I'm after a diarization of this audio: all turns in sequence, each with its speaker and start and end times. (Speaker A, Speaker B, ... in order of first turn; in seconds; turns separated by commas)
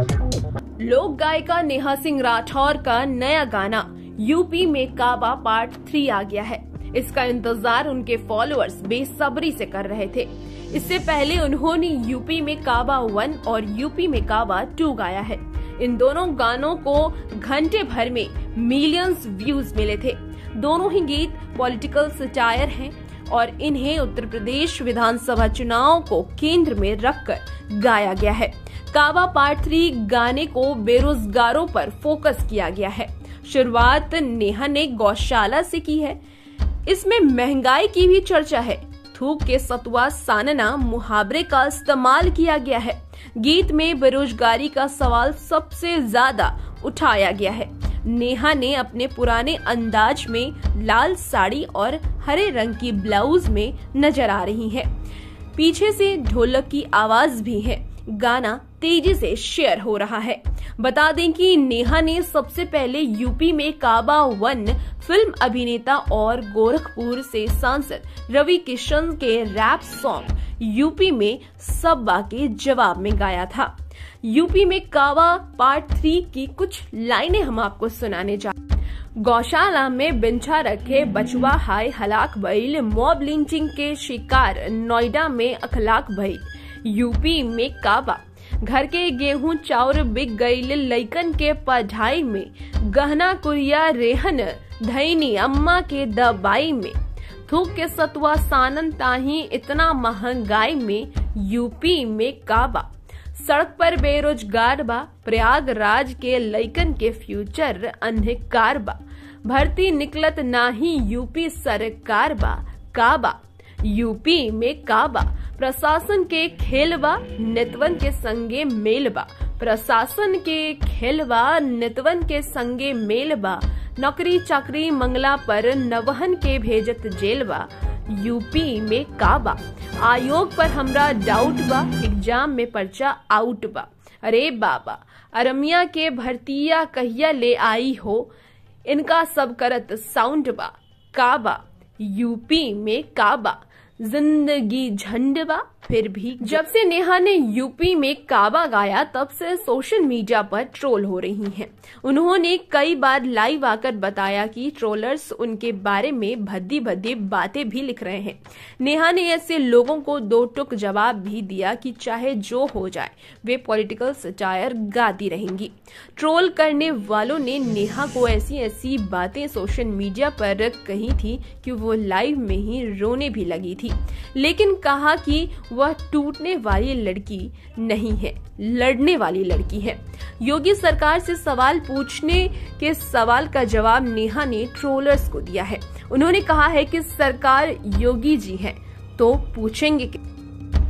Speaker A: 0.8-36.2, Speaker A: 36.9-54.9, Speaker A: 55.5-78.6, Speaker A: 79.2-138.3, Speaker A: 138.9-190.2